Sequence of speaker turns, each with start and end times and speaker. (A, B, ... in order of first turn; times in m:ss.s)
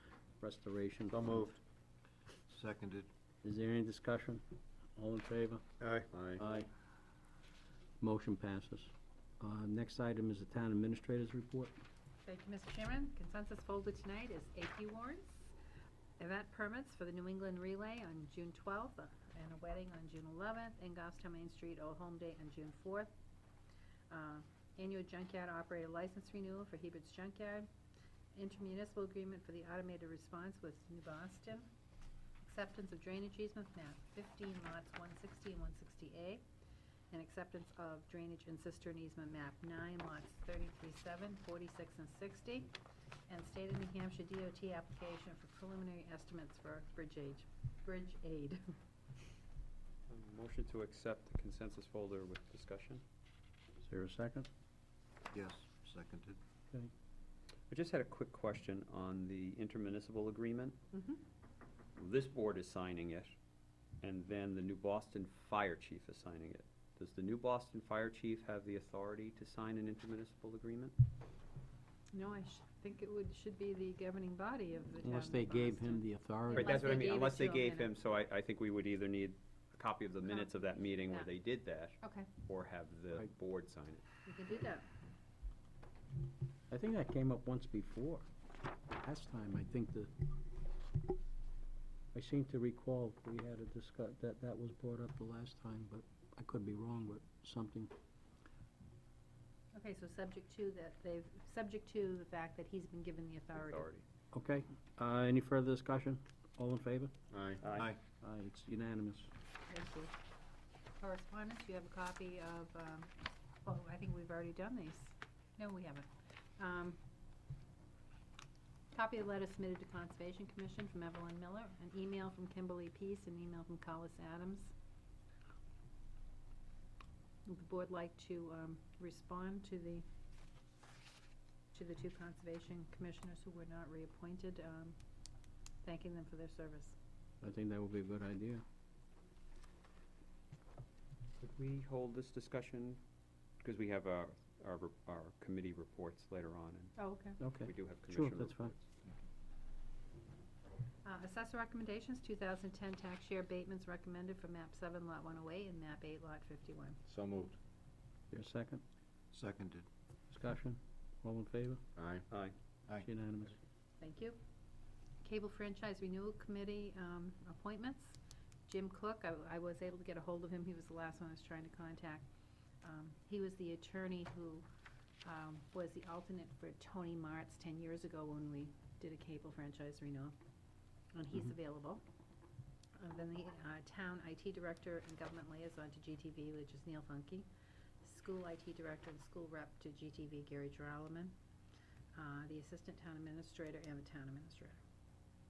0:00.4-0:01.6 A
0:01.1-0:01.6 B
0:02.5-0:03.1 B
0:03.4-0:04.4 A
0:05.0-0:05.6 A
0:05.8-0:06.4 B
0:06.4-0:06.7 A
0:08.0-0:11.8 A
0:12.2-0:15.3 C
0:16.2-0:23.1 C
0:24.1-0:27.7 C
0:28.3-0:31.7 C
0:32.4-0:36.4 C
0:37.1-0:42.7 C
0:43.3-0:48.6 C
0:50.1-0:53.0 D
0:53.8-0:54.5 A
0:55.3-0:56.4 B
0:57.7-1:00.8 D
1:00.9-1:01.2 C
1:02.0-1:03.3 D
1:04.0-1:10.9 D
1:12.1-1:17.9 C
1:15.0-1:16.9 A
1:16.5-1:24.0 D
1:22.0-1:22.3 C
1:24.2-1:24.9 C
1:26.7-1:28.3 A
1:28.9-1:30.1 A
1:32.1-1:37.9 A
1:39.7-1:43.8 C
1:43.6-1:44.0 D
1:44.3-1:47.1 A
1:47.3-1:48.0 B
1:47.6-1:47.9 D
1:48.2-1:49.3 A
1:49.7-1:50.1 C
1:51.0-1:53.1 C
1:53.6-1:57.0 C
1:58.9-2:04.7 C
2:07.4-2:10.0 C
2:11.7-2:15.0 C
2:15.8-2:17.0 C
2:17.4-2:18.6 A
2:21.4-2:23.0 D
2:23.6-2:26.9 D
2:27.0-2:27.4 C
2:27.4-2:28.7 A
2:27.6-2:28.8 D
2:31.0-2:37.0 C
2:37.1-2:37.6 B
2:38.3-2:38.8 A
2:39.3-2:39.9 B
2:40.3-2:41.8 A
2:42.0-2:42.3 B
2:43.0-2:43.6 A
2:44.0-2:44.4 C
2:45.2-2:52.2 C
2:52.8-2:54.6 C
2:55.2-3:00.4 C
3:01.1-3:02.0 C
3:03.0-3:07.5 C
3:08.0-3:11.3 C
3:12.1-3:14.8 C